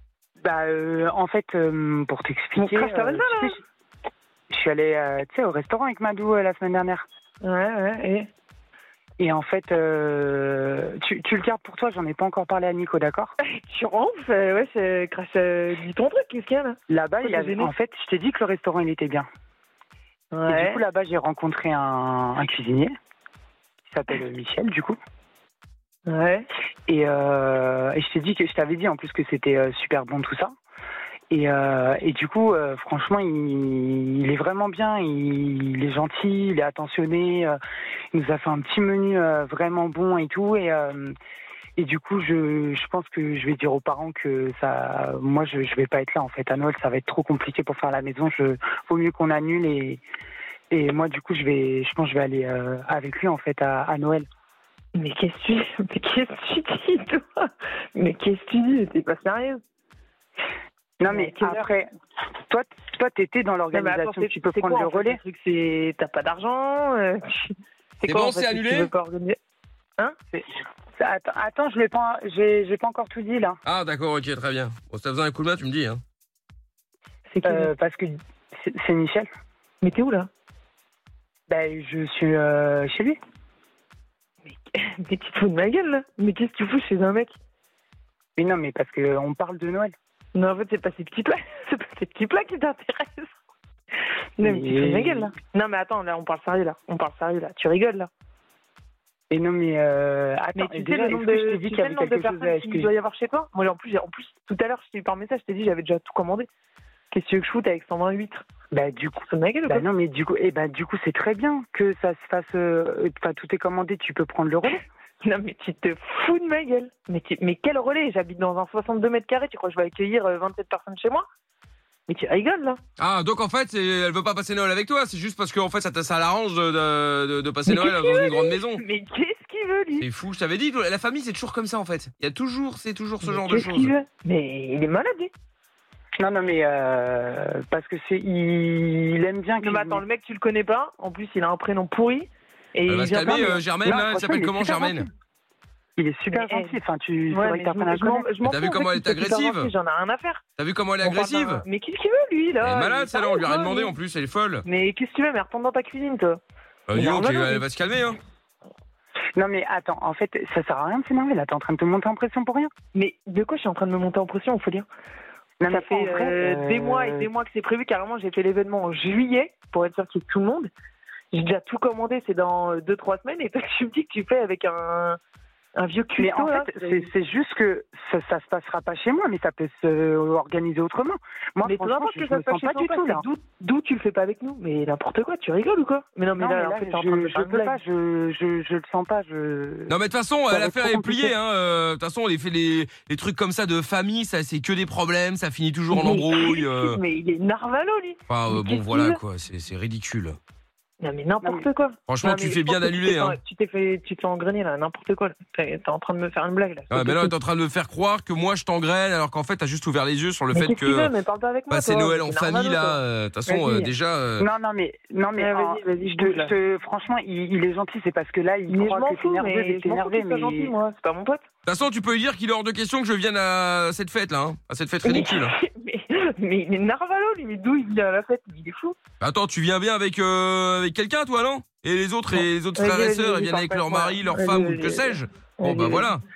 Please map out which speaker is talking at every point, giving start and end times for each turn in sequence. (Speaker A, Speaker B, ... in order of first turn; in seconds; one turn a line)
Speaker A: 0.4-3.6
Speaker B: 2.5-3.6
Speaker A: 4.5-7.0
Speaker B: 7.4-8.3
Speaker A: 9.2-13.3
Speaker B: 13.4-17.7
Speaker A: 16.9-19.2
Speaker B: 20.3-20.8
Speaker A: 20.5-22.9
Speaker A: 23.9-25.0
Speaker B: 26.1-26.5
Speaker A: 26.9-30.5
Speaker A: 31.3-37.6
Speaker A: 38.1-41.1
Speaker A: 41.8-50.0
Speaker A: 50.7-54.2
Speaker B: 55.0-59.6
Speaker A: 61.0-61.9
Speaker B: 61.1-61.6
Speaker A: 62.5-65.2
Speaker B: 63.7-69.4
Speaker C: 68.0-68.9
Speaker A: 71.0-73.6
Speaker C: 73.7-76.0
Speaker B: 77.3-77.7
Speaker A: 77.4-79.3
Speaker B: 79.8-80.3
Speaker A: 81.5-83.2
Speaker B: 84.4-87.3
Speaker A: 88.4-89.9
Speaker B: 90.3-93.3
Speaker B: 94.4-98.1
Speaker A: 94.4-95.3
Speaker A: 99.3-102.9
Speaker B: 100.5-106.5
Speaker B: 107.1-108.4
Speaker A: 108.7-114.8
Speaker B: 109.2-109.8
Speaker B: 115.2-121.2
Speaker B: 122.1-122.8
Speaker C: 123.0-128.8
Speaker B: 127.7-130.1
Speaker C: 130.0-133.9
Speaker B: 133.2-135.3
Speaker A: 136.2-140.0
Speaker B: 139.6-143.6
Speaker C: 142.9-145.1
Speaker A: 143.3-145.1
Speaker A: 146.0-148.3
Speaker B: 146.3-146.8
Speaker B: 147.3-150.4
Speaker C: 148.4-149.7
Speaker C: 150.6-151.6
Speaker B: 151.0-153.9
Speaker C: 152.6-154.6
Speaker B: 154.7-156.4
Speaker C: 156.9-158.2
Speaker B: 156.9-157.6
Speaker A: 159.3-162.7
Speaker B: 162.9-164.8
Speaker A: 165.6-167.3
Speaker B: 165.7-170.7
Speaker B: 171.3-175.2
Speaker B: 175.8-177.1
Speaker A: 176.2-183.2
Speaker B: 181.6-187.8
Speaker A: 186.3-189.9
Speaker C: 189.9-197.0
Speaker A: 190.5-191.3
Speaker B: 195.9-199.2
Speaker C: 198.3-200.4
Speaker B: 201.0-207.3
Speaker A: 201.4-201.7
Speaker C: 202.1-203.4
Speaker C: 206.9-211.1
Speaker B: 210.5-213.9
Speaker C: 211.7-214.5
Speaker A: 214.4-220.7
Speaker B: 215.4-216.5
Speaker B: 218.7-221.4
Speaker C: 221.7-225.5
Speaker B: 225.0-228.9
Speaker C: 229.2-236.2
Speaker B: 232.8-236.1